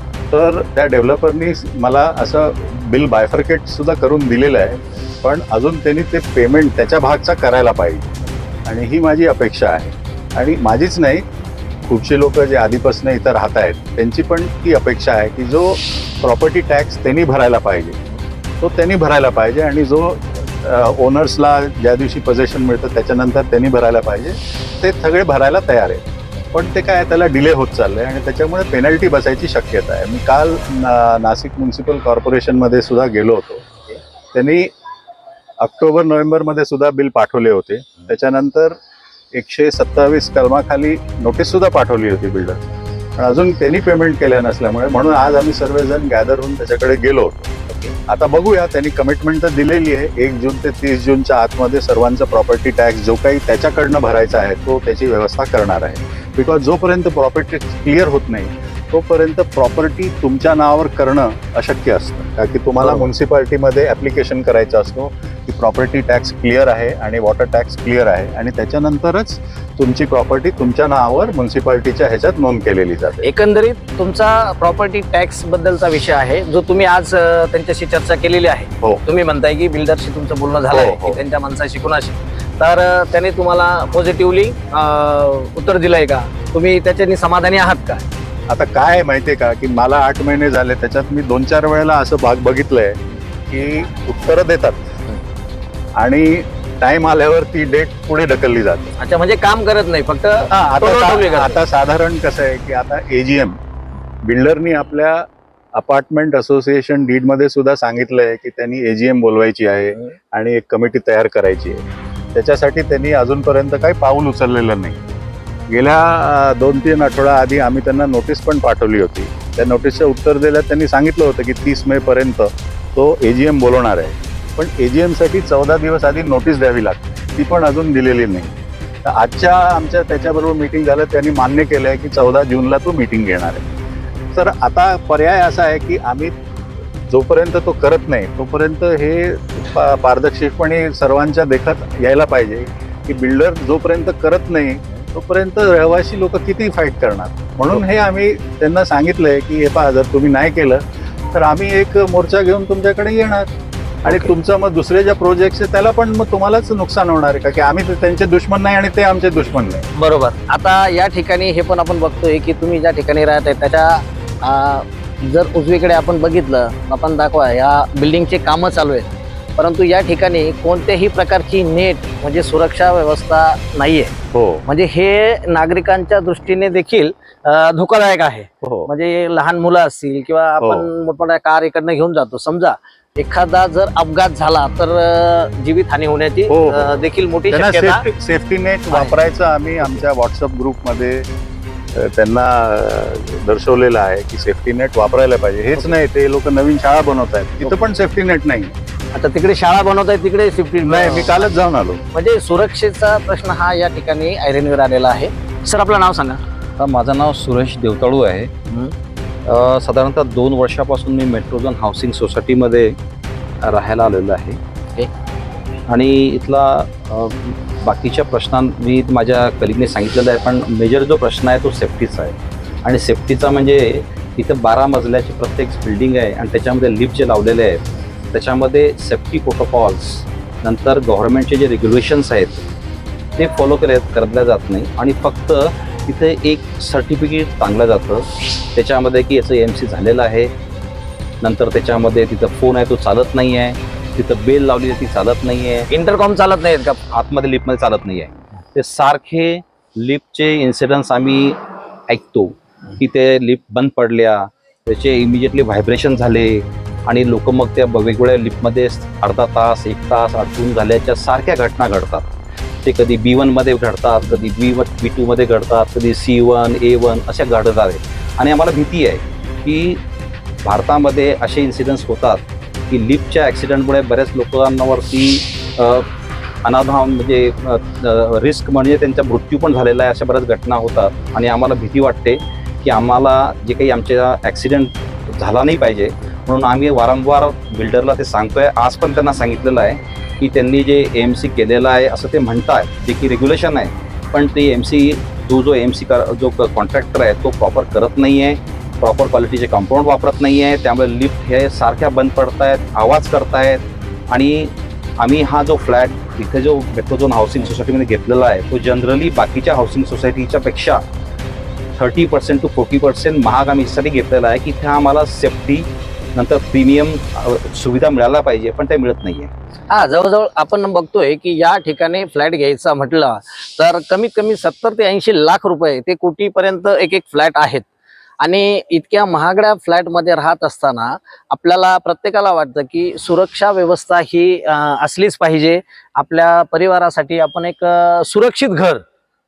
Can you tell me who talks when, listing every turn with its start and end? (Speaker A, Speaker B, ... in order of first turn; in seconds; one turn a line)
Speaker A: 0.3-8.1
Speaker A: 8.7-11.2
Speaker A: 11.8-18.0
Speaker A: 18.6-33.7
Speaker A: 34.3-34.7
Speaker A: 35.6-38.8
Speaker A: 39.3-47.5
Speaker A: 48.1-73.3
Speaker B: 73.2-88.0
Speaker A: 80.7-81.2
Speaker A: 88.5-93.0
Speaker A: 93.5-94.8
Speaker A: 96.0-98.9
Speaker B: 99.0-101.6
Speaker A: 100.5-103.6
Speaker A: 104.2-111.8
Speaker A: 112.3-115.0
Speaker A: 115.7-128.5
Speaker A: 129.1-133.7
Speaker A: 134.3-136.3
Speaker A: 137.1-150.8
Speaker A: 151.3-153.5
Speaker A: 154.1-159.9
Speaker B: 154.1-154.3
Speaker B: 159.9-188.1
Speaker A: 174.3-174.6
Speaker A: 178.6-178.9
Speaker A: 180.6-180.9
Speaker A: 186.5-191.3
Speaker B: 188.9-189.2
Speaker A: 191.9-198.7
Speaker B: 199.1-201.5
Speaker A: 200.8-202.0
Speaker B: 202.1-206.4
Speaker C: 206.8-208.5
Speaker B: 208.7-208.9
Speaker C: 209.5-213.0
Speaker C: 213.6-214.6
Speaker C: 215.9-232.6
Speaker C: 233.4-240.5
Speaker C: 241.4-245.9
Speaker B: 245.9-247.0
Speaker C: 247.1-262.3
Speaker C: 262.8-270.0
Speaker C: 270.6-276.1
Speaker C: 276.6-311.0
Speaker C: 312.0-319.5
Speaker B: 319.9-327.9
Speaker B: 328.4-339.0